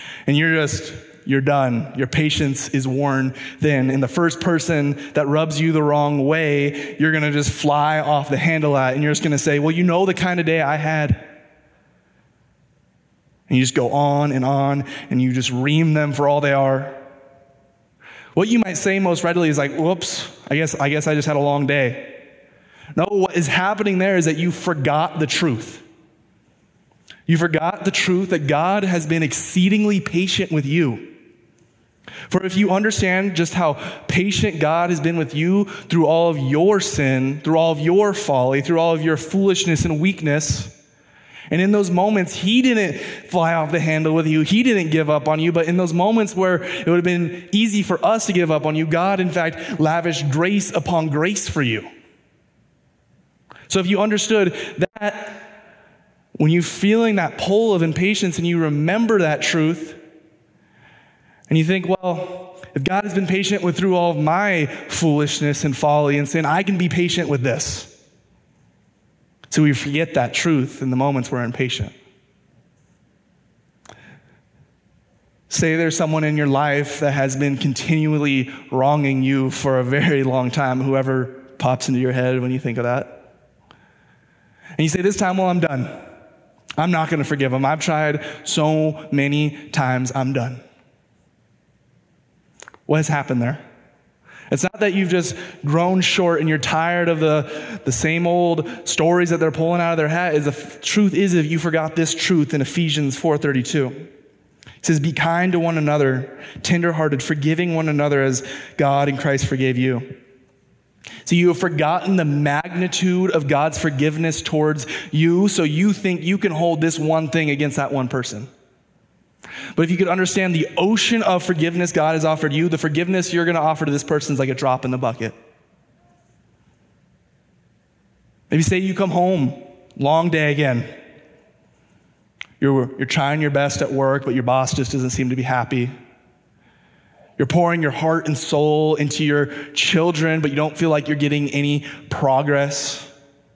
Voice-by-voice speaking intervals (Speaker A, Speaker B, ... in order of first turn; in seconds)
Speaker A: 0.3-11.3, 13.5-17.0, 18.3-22.2, 23.0-25.9, 27.3-31.1, 32.3-40.8, 41.5-51.9, 53.7-55.5, 56.4-60.0, 61.5-67.9, 69.5-72.0, 75.5-83.2, 84.8-85.9, 86.8-90.6, 92.9-93.6, 94.5-104.1, 104.8-110.2, 111.2-118.5, 119.8-125.4, 128.5-130.9, 132.6-135.9, 137.4-143.1